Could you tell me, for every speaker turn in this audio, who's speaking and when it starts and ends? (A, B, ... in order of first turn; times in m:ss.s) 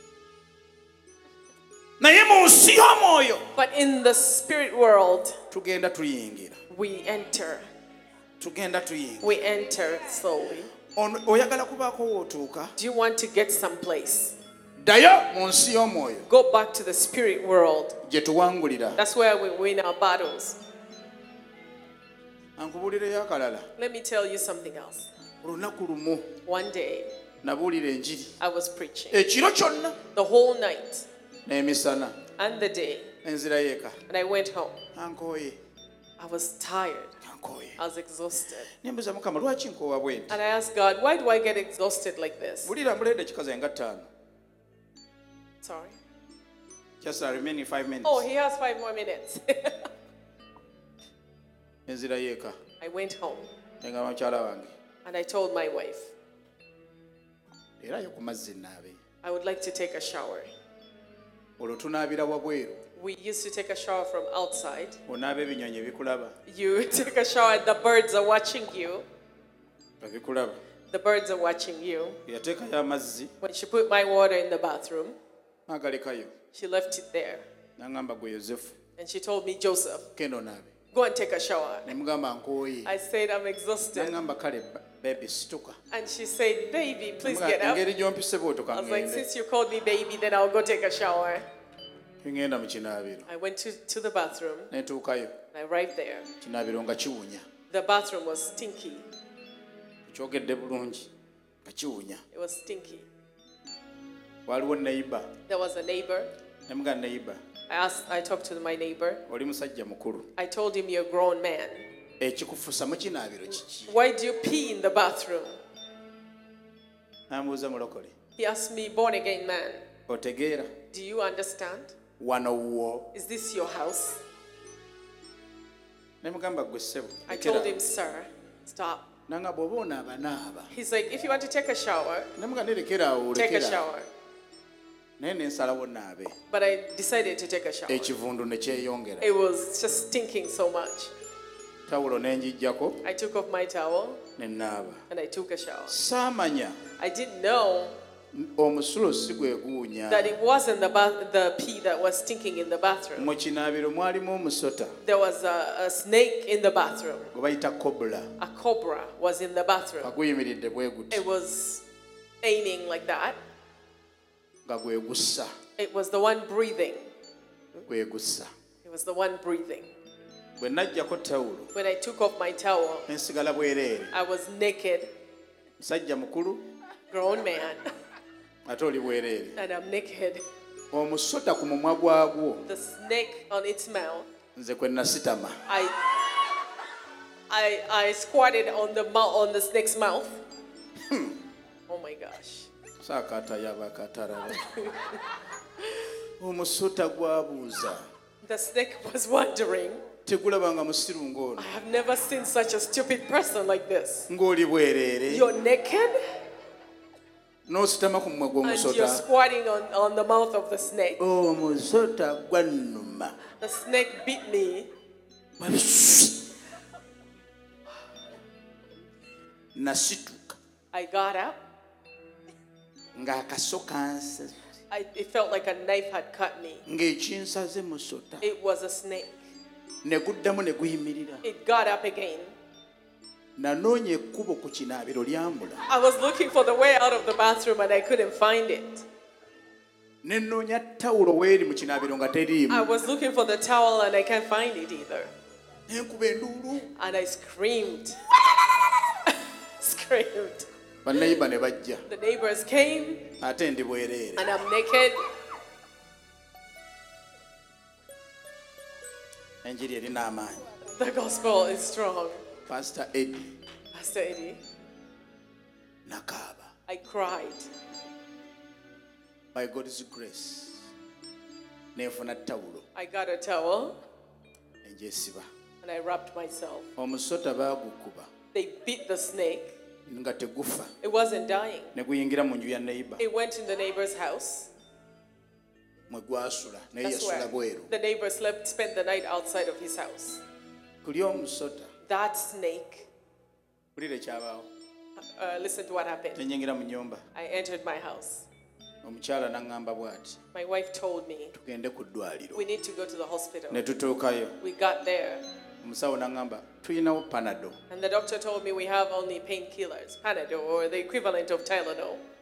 0:02.0-0:03.4 A
0:03.6-0:05.4 B
0:05.5-0:06.6 A
0:06.7-0:07.6 B
0:08.4-0:09.4 A
0:09.2-0:10.7 B
0:10.9-0:12.7 A
0:12.8-0:14.3 B
0:14.8-0:16.2 A
0:16.3-0:18.0 B
0:18.0-0:19.0 A
0:19.0-0:20.6 B
0:22.6-0:23.6 A
0:23.8-0:25.1 B
0:25.4-0:26.3 A
0:26.4-0:27.1 B
0:27.4-0:28.3 A
0:28.4-0:29.2 B
0:29.1-0:30.0 A
0:30.1-0:31.0 B
0:31.4-0:32.2 A
0:32.4-0:33.1 B
0:33.2-0:34.0 A
0:34.1-0:34.8 B
0:34.9-0:35.6 A
0:36.2-0:37.2 B
0:37.2-0:37.8 A
0:37.8-0:38.7 B
0:38.8-0:40.4 A
0:40.3-0:42.7 B
0:42.6-0:44.1 A
0:45.6-0:46.0 B
0:47.0-0:48.2 A
0:48.0-0:49.9 B
0:51.9-0:52.6 A
0:52.8-0:53.5 B
0:53.8-0:54.7 A
0:55.0-0:56.1 B
0:57.8-0:59.0 A
0:59.2-1:00.5 B
1:01.6-1:02.8 A
1:03.0-1:05.0 B
1:05.1-1:06.3 A
1:06.5-1:09.0 B
1:10.0-1:10.6 A
1:10.9-1:12.2 B
1:12.2-1:13.3 A
1:13.4-1:15.2 B
1:15.7-1:16.3 A
1:16.5-1:17.4 B
1:17.8-1:18.7 A
1:19.0-1:20.1 B
1:20.2-1:20.7 A
1:20.9-1:21.9 B
1:21.8-1:22.9 A
1:22.8-1:24.1 B
1:23.9-1:25.8 A
1:25.9-1:27.8 B
1:27.2-1:29.3 A
1:28.7-1:31.4 B
1:32.2-1:33.3 A
1:33.3-1:34.7 B
1:34.7-1:35.3 A
1:35.5-1:36.3 B
1:36.4-1:37.4 A
1:37.7-1:39.0 B
1:40.1-1:41.1 A
1:41.6-1:42.2 A
1:42.3-1:43.0 B
1:44.4-1:45.3 A
1:45.5-1:46.3 B
1:46.7-1:47.4 A
1:47.7-1:49.2 B
1:49.3-1:50.3 A
1:50.4-1:51.9 B
1:52.2-1:53.9 A
1:53.9-1:55.6 B
1:57.3-1:58.1 A
1:58.4-1:59.8 B
2:00.1-2:00.7 A
2:00.9-2:01.9 B
2:02.2-2:03.1 A
2:03.1-2:04.2 B
2:06.2-2:07.8 A
2:07.3-2:09.0 B
2:09.3-2:10.7 A
2:10.7-2:12.3 B
2:12.4-2:13.8 A
2:13.3-2:14.1 B
2:15.2-2:16.4 A
2:16.5-2:18.1 B
2:17.9-2:19.3 A
2:19.2-2:21.1 B
2:21.9-2:23.0 A
2:23.0-2:24.2 B
2:24.4-2:25.0 A
2:25.1-2:26.0 B
2:25.9-2:26.8 A
2:27.0-2:28.0 B
2:28.3-2:30.3 A
2:30.1-2:33.3 B
2:33.2-2:34.9 A
2:35.0-2:37.3 B
2:37.3-2:38.3 A
2:38.4-2:40.1 B
2:40.0-2:41.2 A
2:41.1-2:41.8 B
2:42.4-2:43.4 B
2:44.6-2:45.5 A
2:45.8-2:47.1 B
2:47.8-2:48.5 A
2:48.8-2:49.9 B
2:50.6-2:51.7 A
2:51.7-2:53.1 B
2:53.1-2:54.1 A
2:54.1-2:55.1 B
2:55.8-2:56.6 A
2:57.1-2:57.9 B
2:58.6-2:59.6 A
2:59.6-3:00.4 B
3:00.9-3:02.6 A
3:02.6-3:04.3 B
3:04.6-3:05.6 A
3:05.7-3:06.0 B
3:07.5-3:10.4 B
3:11.1-3:11.4 A
3:11.9-3:12.7 B
3:13.0-3:14.6 A
3:14.6-3:15.2 B
3:16.4-3:18.0 A
3:18.4-3:20.0 B
3:20.2-3:21.7 A
3:21.6-3:24.3 B
3:24.3-3:25.5 A
3:25.3-3:26.2 B
3:27.7-3:29.2 A
3:28.6-3:31.2 B
3:31.2-3:33.3 A
3:33.6-3:34.9 B
3:35.6-3:36.4 A
3:39.7-3:40.6 A
3:40.9-3:41.6 B
3:43.1-3:44.6 A
3:44.9-3:46.8 B
3:46.8-3:48.4 A
3:48.4-3:49.4 B
3:50.0-3:51.4 A
3:51.4-3:52.5 B
3:53.6-3:55.8 A
3:55.9-3:59.0 B
4:00.2-4:02.9 A
4:02.7-4:05.3 B
4:05.9-4:06.9 A
4:07.0-4:10.7 B
4:11.0-4:12.0 A
4:12.1-4:13.3 B
4:13.4-4:14.5 A
4:14.4-4:15.2 B
4:19.6-4:20.6 A
4:20.9-4:22.4 B
4:22.7-4:23.5 A
4:23.9-4:24.6 B
4:26.0-4:26.7 A
4:26.9-4:27.7 B
4:29.5-4:30.9 A
4:31.9-4:32.8 A
4:32.9-4:34.0 B
4:34.8-4:35.5 A
4:35.8-4:36.9 B
4:37.0-4:38.3 A
4:38.5-4:39.7 B
4:40.1-4:40.9 A
4:41.0-4:41.9 B
4:41.9-4:43.2 A
4:43.2-4:44.7 B
4:46.1-4:47.9 A
4:47.0-4:50.4 B
4:51.0-4:51.9 A
4:52.0-4:53.1 B
4:54.0-4:54.7 A
4:55.2-4:56.4 B
4:56.3-4:57.2 A
4:57.3-4:58.5 B
4:59.0-5:00.4 A
5:00.5-5:01.5 B
5:01.5-5:02.6 A
5:02.5-5:03.8 B
5:03.7-5:04.5 A
5:04.6-5:05.4 B
5:05.8-5:07.8 A
5:07.9-5:12.2 B